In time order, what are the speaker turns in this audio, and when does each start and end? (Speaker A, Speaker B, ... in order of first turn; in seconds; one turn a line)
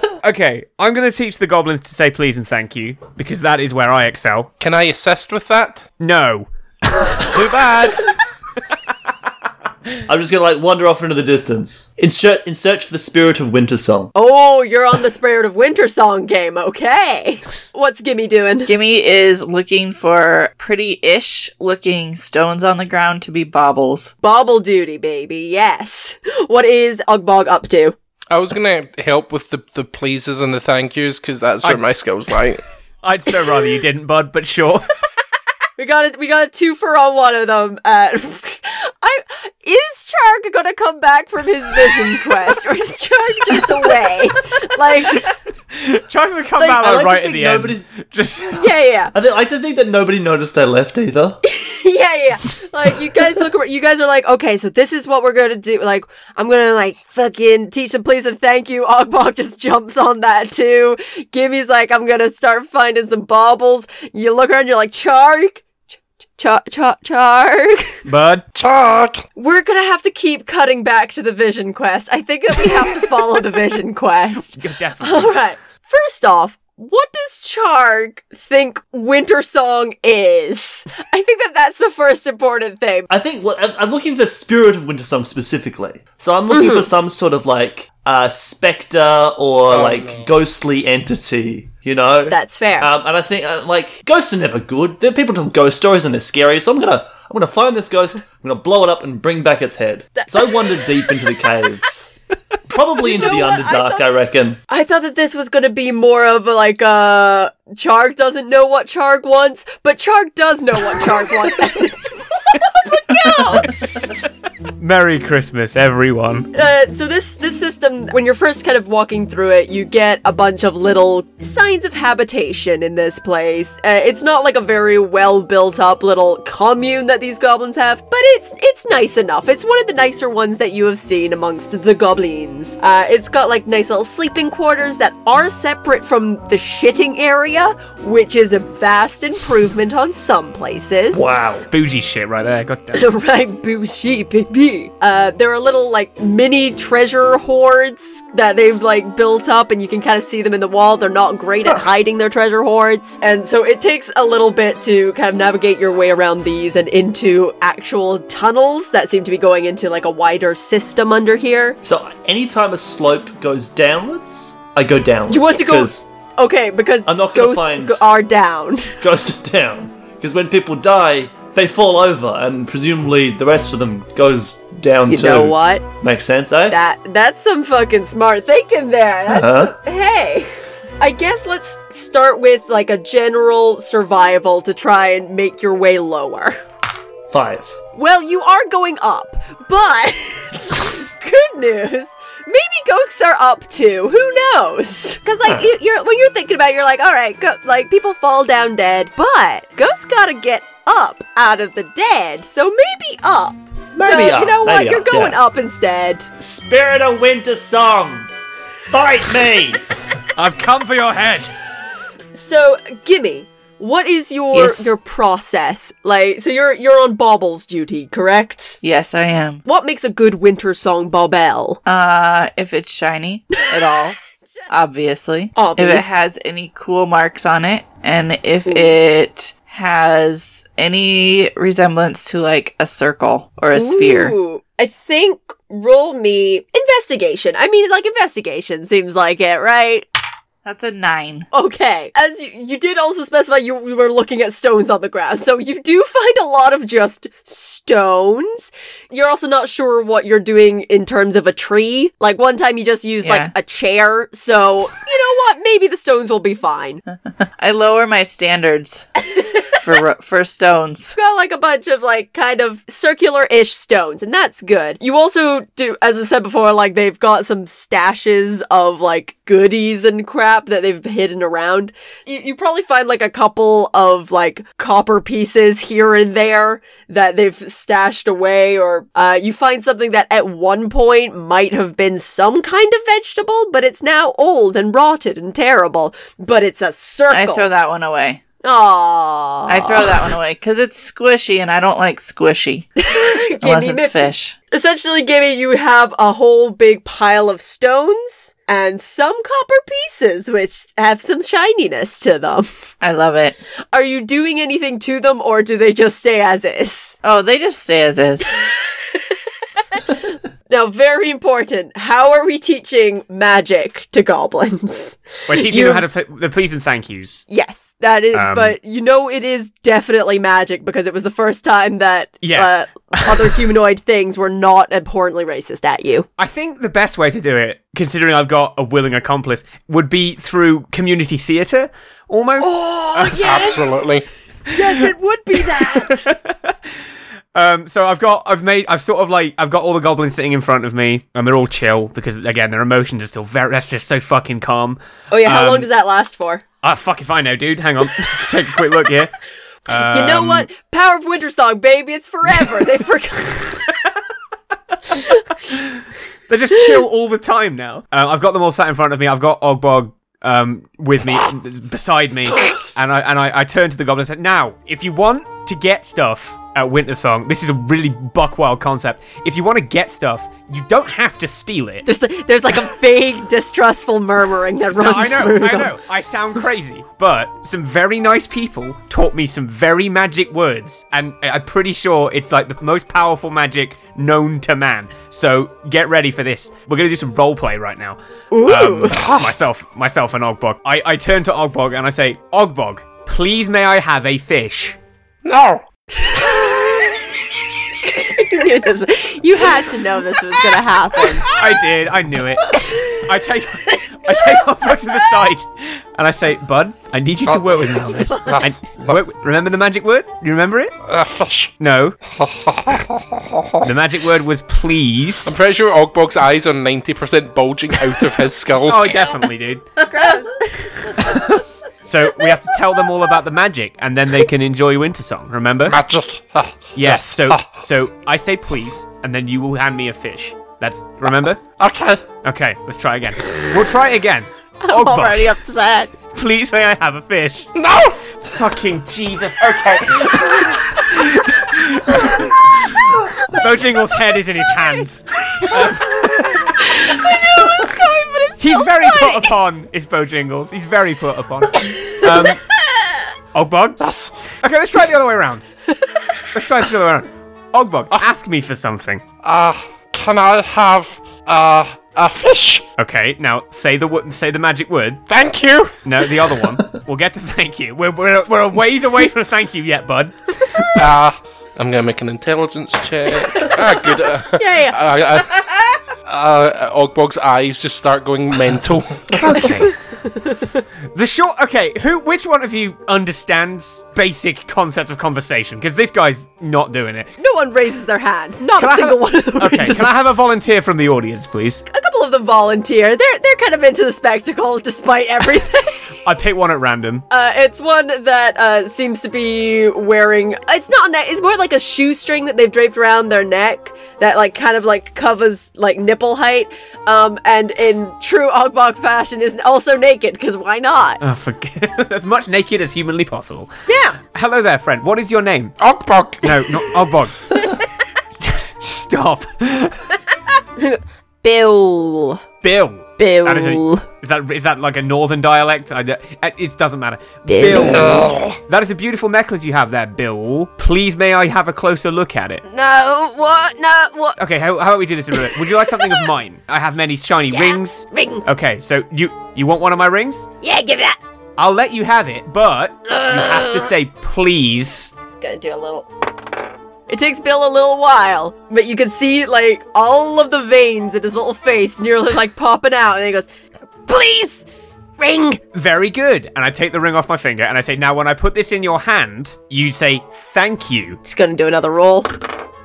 Speaker A: 0.2-4.5
Speaker B: 4.6-5.8
Speaker A: 6.0-7.7
Speaker B: 7.2-8.1
Speaker C: 10.1-14.1
Speaker D: 14.1-18.7
Speaker E: 18.6-24.1
Speaker D: 24.2-27.9
Speaker B: 28.3-32.6
Speaker A: 33.0-34.9
Speaker D: 35.8-45.3
Speaker A: 45.7-48.7
Speaker C: 46.6-47.9
Speaker D: 48.5-49.1
Speaker C: 49.1-51.4
Speaker D: 51.4-65.7
Speaker D: 66.4-68.0
Speaker A: 68.0-68.4
Speaker B: 68.5-69.2
Speaker D: 69.3-83.1
Speaker A: 74.5-75.3
Speaker C: 83.1-102.1
Speaker D: 86.5-86.9
Speaker B: 89.7-90.3
Speaker D: 92.3-92.9
Speaker D: 100.2-100.7
Speaker C: 102.7-104.6
Speaker D: 103.0-104.0
Speaker D: 104.7-114.2
Speaker A: 113.6-114.1
Speaker A: 114.8-116.5
Speaker D: 116.5-141.2
Speaker C: 141.1-141.7
Speaker A: 141.7-143.1
Speaker D: 142.9-161.8
Speaker C: 161.8-166.1
Speaker D: 165.3-169.0
Speaker C: 167.1-168.0
Speaker C: 169.0-176.8
Speaker D: 175.1-175.8
Speaker D: 176.7-186.6
Speaker C: 179.3-179.7
Speaker C: 187.3-187.8
Speaker D: 187.9-206.3
Speaker C: 203.9-205.4
Speaker C: 206.4-208.3
Speaker C: 208.9-209.8
Speaker A: 210.3-211.5
Speaker D: 212.3-218.8
Speaker E: 214.5-214.9
Speaker E: 218.8-219.6
Speaker D: 219.6-221.8
Speaker E: 221.8-224.2
Speaker E: 224.7-234.3
Speaker D: 225.5-226.2
Speaker D: 228.7-228.9
Speaker D: 233.7-240.1
Speaker E: 240.6-241.5
Speaker D: 241.5-257.0
Speaker E: 253.2-253.5
Speaker E: 257.6-261.1
Speaker D: 259.3-259.6
Speaker D: 261.1-287.7
Speaker E: 287.3-288.4
Speaker D: 288.6-290.1
Speaker E: 289.7-292.9
Speaker D: 293.0-302.7
Speaker E: 293.6-294.6
Speaker E: 303.0-303.6
Speaker D: 303.9-307.1
Speaker E: 307.2-308.6
Speaker D: 308.6-309.2
Speaker D: 309.9-316.0
Speaker A: 315.5-317.4
Speaker D: 317.5-326.3
Speaker A: 318.3-318.7
Speaker A: 322.4-323.5
Speaker A: 326.4-332.8
Speaker D: 332.6-334.1
Speaker B: 333.2-334.2
Speaker D: 334.7-336.3
Speaker A: 335.7-336.9
Speaker A: 337.5-345.9
Speaker D: 345.3-346.6
Speaker A: 346.8-349.3
Speaker A: 349.9-350.7
Speaker D: 349.9-353.9
Speaker D: 355.1-355.4
Speaker A: 356.5-372.1
Speaker D: 372.1-375.9
Speaker A: 374.9-395.0
Speaker D: 388.5-389.2
Speaker B: 389.1-389.5
Speaker B: 395.4-395.8
Speaker D: 396.2-397.2
Speaker D: 398.0-401.5
Speaker A: 401.5-410.9
Speaker D: 402.9-403.2
Speaker B: 407.4-409.2
Speaker B: 411.0-411.7
Speaker A: 411.8-412.2
Speaker B: 412.3-413.9
Speaker A: 413.8-415.6
Speaker B: 415.4-419.2
Speaker A: 418.8-420.0
Speaker D: 420.0-421.0
Speaker A: 421.2-426.0
Speaker B: 425.9-427.8
Speaker A: 426.9-431.6
Speaker B: 431.8-432.2
Speaker A: 432.4-435.6
Speaker D: 434.8-436.1
Speaker A: 436.3-437.7
Speaker B: 437.8-438.2
Speaker A: 438.4-446.9
Speaker D: 445.6-449.5
Speaker A: 448.6-452.6
Speaker D: 452.2-453.2
Speaker A: 453.5-454.0
Speaker B: 454.0-454.3
Speaker A: 454.6-455.6
Speaker A: 456.5-459.2
Speaker B: 459.4-462.9
Speaker A: 463.0-465.2
Speaker B: 465.3-466.0
Speaker A: 466.0-471.0
Speaker B: 470.9-475.7
Speaker D: 474.5-475.0
Speaker B: 476.2-479.7
Speaker A: 479.4-479.9
Speaker D: 479.9-480.8
Speaker A: 481.1-487.3
Speaker D: 487.4-490.1
Speaker A: 488.8-491.8
Speaker D: 491.9-496.1
Speaker A: 496.2-497.2
Speaker D: 497.3-511.2
Speaker A: 511.2-515.8
Speaker D: 513.9-514.2
Speaker B: 515.8-516.9
Speaker A: 516.4-517.7
Speaker A: 518.4-520.2
Speaker D: 520.8-522.4
Speaker A: 522.6-532.6
Speaker D: 523.2-524.0
Speaker D: 527.5-528.2
Speaker B: 527.8-528.6
Speaker D: 532.6-534.4
Speaker A: 534.4-540.5
Speaker D: 535.3-536.3
Speaker D: 537.5-538.5
Speaker D: 540.6-541.2
Speaker A: 541.6-545.1
Speaker D: 543.1-543.9
Speaker D: 545.2-546.1
Speaker D: 547.1-553.5
Speaker D: 554.0-554.6
Speaker D: 555.2-555.6
Speaker A: 555.7-561.2
Speaker D: 561.2-562.5